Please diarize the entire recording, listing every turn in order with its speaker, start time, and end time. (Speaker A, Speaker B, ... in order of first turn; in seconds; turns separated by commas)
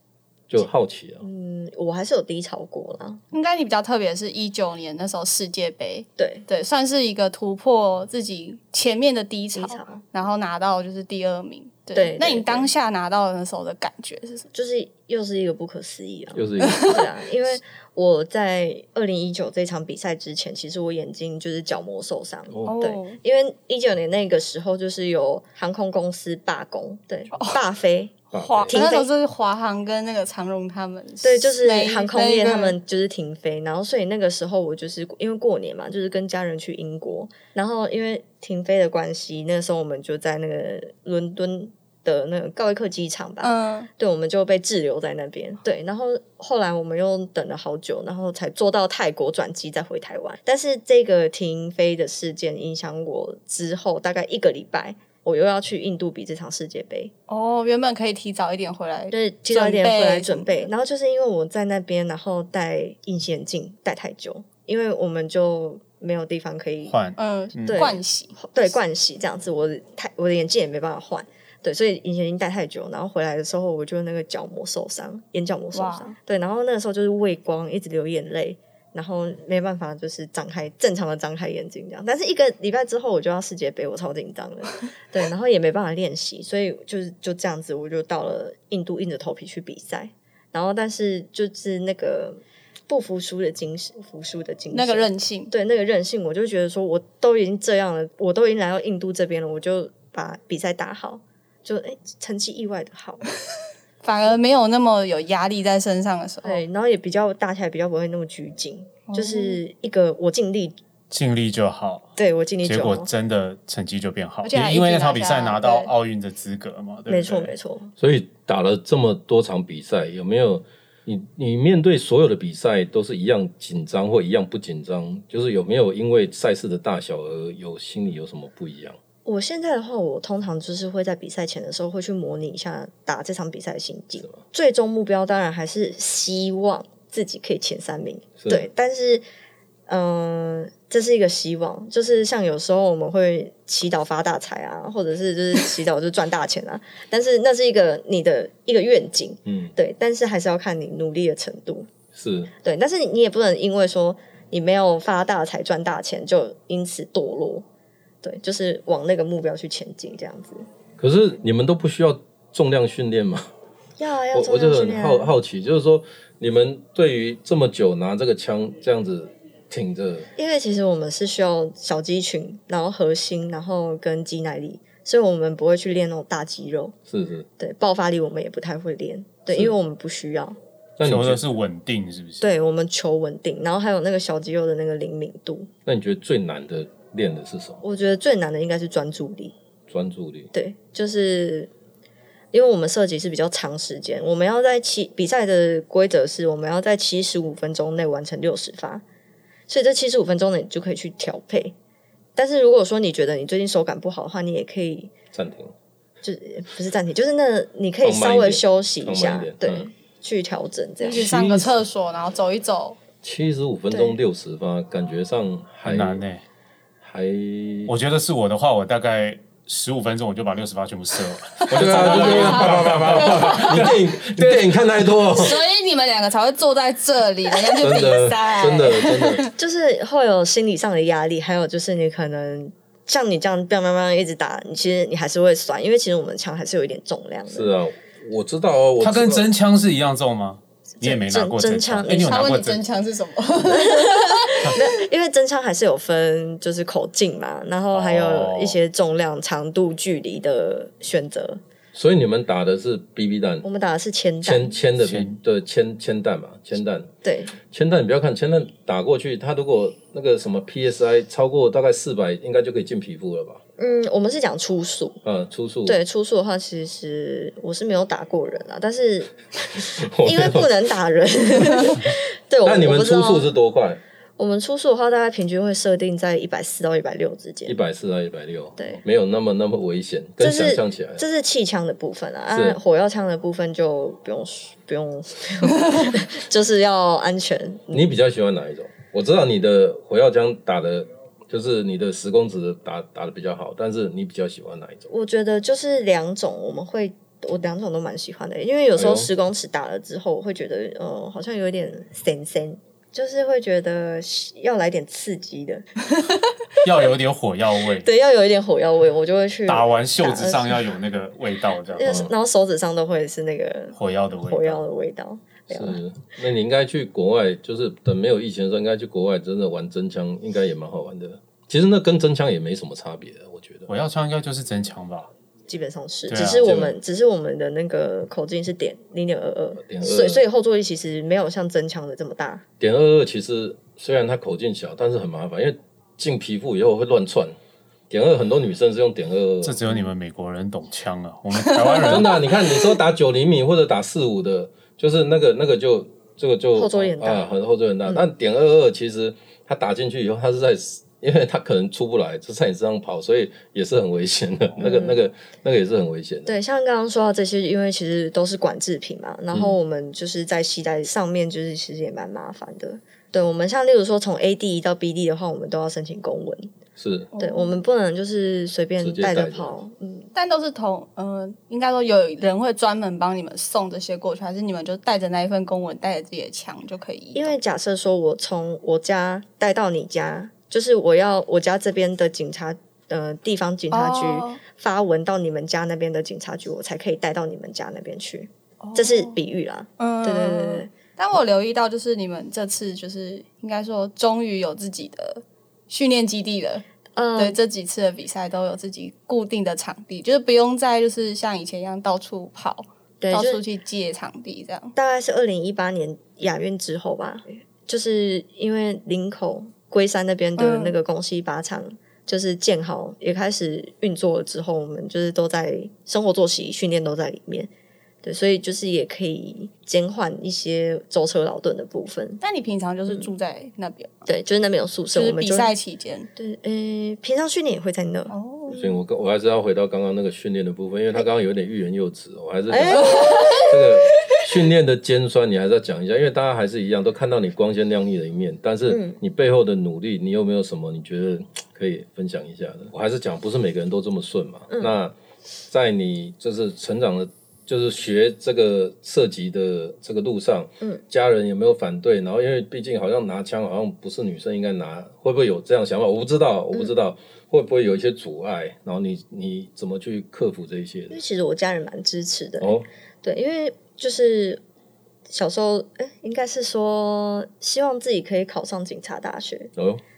Speaker A: 0.5-1.2, Speaker B: 1.2-3.2, Speaker C: 3.3-14.5, Speaker B: 6.2-6.4, Speaker B: 9.5-10.0, Speaker B: 11.9-12.7, Speaker B: 14.5-28.1, Speaker A: 16.3-17.0, Speaker C: 16.6-17.0, Speaker A: 22.5-22.7, Speaker C: 22.6-23.2, Speaker C: 27.3-27.6, Speaker A: 28.3-28.8, Speaker C: 28.3-32.8, Speaker B: 28.7-29.1, Speaker B: 31.2-57.1, Speaker C: 43.4-43.9, Speaker C: 57.3-60.7, Speaker B: 59.1-66.9, Speaker D: 66.9-67.9, Speaker C: 67.2-68.4, Speaker B: 67.7-103.2, Speaker C: 75.7-76.1, Speaker C: 94.7-95.5, Speaker C: 104.0-106.6, Speaker B: 106.4-110.8, Speaker C: 109.1-109.6, Speaker D: 111.1-112.1, Speaker B: 112.2-113.1, Speaker D: 112.6-117.5, Speaker C: 114.4-115.9, Speaker B: 117.1-117.9, Speaker A: 118.0-129.0, Speaker B: 129.2-139.2, Speaker A: 138.4-138.7, Speaker B: 139.9-151.9, Speaker A: 149.4-149.7, Speaker A: 152.1-152.5, Speaker B: 152.6-157.6, Speaker B: 158.2-160.7, Speaker A: 161.0-163.5, Speaker B: 164.0-165.3, Speaker A: 164.3-170.3, Speaker B: 170.4-176.9, Speaker A: 177.1-177.5, Speaker B: 177.6-180.6, Speaker A: 179.5-179.8, Speaker A: 181.0-181.4, Speaker D: 181.0-182.5, Speaker B: 182.4-185.7, Speaker A: 185.8-187.8, Speaker B: 187.8-189.5, Speaker A: 189.9-190.5, Speaker B: 190.5-191.7, Speaker B: 192.5-199.0, Speaker B: 199.7-201.7, Speaker B: 202.3-205.1, Speaker A: 205.3-205.7, Speaker B: 206.2-211.4, Speaker A: 208.0-209.9, Speaker C: 211.0-213.0, Speaker D: 211.2-211.7, Speaker A: 213.2-216.2, Speaker B: 213.9-214.2, Speaker D: 215.8-216.4, Speaker A: 217.0-217.9, Speaker D: 217.9-224.8, Speaker A: 221.7-225.6, Speaker C: 221.8-223.9, Speaker C: 225.2-229.5, Speaker A: 227.8-229.5, Speaker B: 229.6-237.7, Speaker A: 237.5-239.5, Speaker D: 239.0-242.8, Speaker B: 241.0-242.4, Speaker C: 242.1-244.8, Speaker B: 243.7-251.6, Speaker D: 247.9-248.8, Speaker A: 251.9-253.7, Speaker B: 253.6-254.7, Speaker A: 254.4-257.1, Speaker D: 255.0-255.3, Speaker B: 257.2-257.6, Speaker A: 257.7-263.6, Speaker B: 263.8-265.2, Speaker A: 265.2-266.0, Speaker B: 265.9-273.5, Speaker A: 269.9-270.8, Speaker A: 272.6-274.0, Speaker B: 274.4-277.8, Speaker A: 277.7-281.2, Speaker B: 280.4-288.1, Speaker A: 282.5-282.8, Speaker A: 287.9-295.1, Speaker B: 295.1-305.9, Speaker A: 298.9-299.3, Speaker D: 306.8-308.1, Speaker B: 308.0-310.9, Speaker D: 309.7-312.2, Speaker B: 311.9-316.0, Speaker A: 312.0-312.3, Speaker D: 313.9-314.9, Speaker A: 315.7-323.9, Speaker D: 323.9-325.3, Speaker B: 325.7-332.6, Speaker D: 326.3-326.8, Speaker A: 326.6-327.0, Speaker A: 329.8-330.4, Speaker A: 332.8-337.6, Speaker A: 338.1-340.0, Speaker D: 339.6-342.4, Speaker A: 342.0-356.5, Speaker B: 346.7-347.5, Speaker B: 354.8-355.2, Speaker B: 356.4-366.7, Speaker A: 367.0-367.3, Speaker C: 367.3-367.8, Speaker B: 367.4-370.3, Speaker A: 369.0-369.8, Speaker C: 370.3-377.6, Speaker B: 377.3-390.9, Speaker C: 383.9-384.6, Speaker C: 388.8-389.4, Speaker C: 390.0-396.8, Speaker B: 397.1-397.6, Speaker C: 397.4-404.9, Speaker B: 403.2-403.6, Speaker B: 404.9-417.7, Speaker C: 410.6-411.0, Speaker B: 418.2-422.4, Speaker C: 422.4-424.3, Speaker B: 424.3-425.7, Speaker C: 425.1-426.3, Speaker B: 426.4-429.0, Speaker C: 428.3-428.8, Speaker A: 428.7-445.1, Speaker B: 432.7-433.7, Speaker C: 432.9-433.7, Speaker B: 438.9-439.2, Speaker B: 444.7-445.0, Speaker A: 445.7-461.2, Speaker B: 461.1-464.6, Speaker A: 462.6-462.9, Speaker B: 465.3-469.7, Speaker A: 469.8-470.0